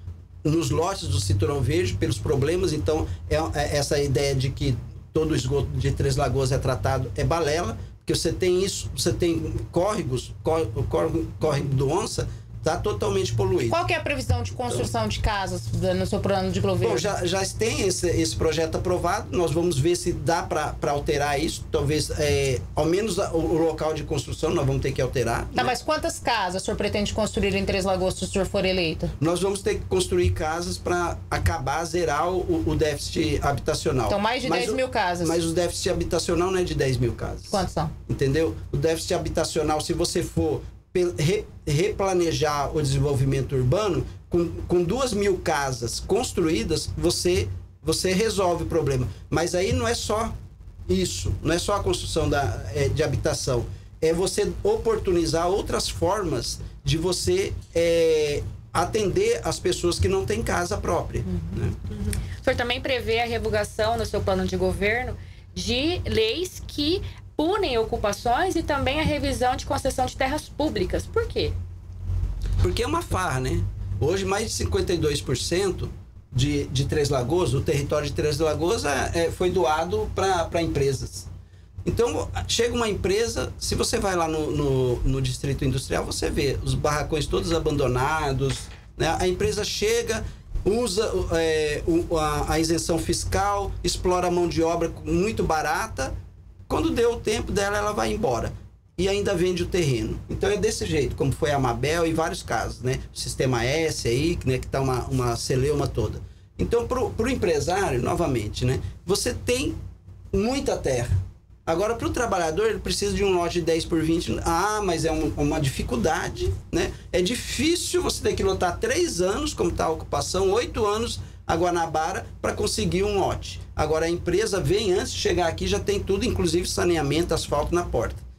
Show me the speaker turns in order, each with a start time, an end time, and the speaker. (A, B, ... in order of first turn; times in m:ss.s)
0:00.4-0:13.8 A
0:13.7-0:17.1 B
0:16.8-0:25.7 A
0:25.5-0:29.1 B
0:29.2-0:50.3 A
0:34.1-0:35.4 B
0:37.5-0:37.9 B
0:50.9-1:01.8 A
1:01.9-1:11.5 C
1:12.6-1:21.3 A
1:21.8-1:36.1 A
1:36.7-1:49.8 A
1:50.3-1:51.1 A
1:51.6-2:08.2 A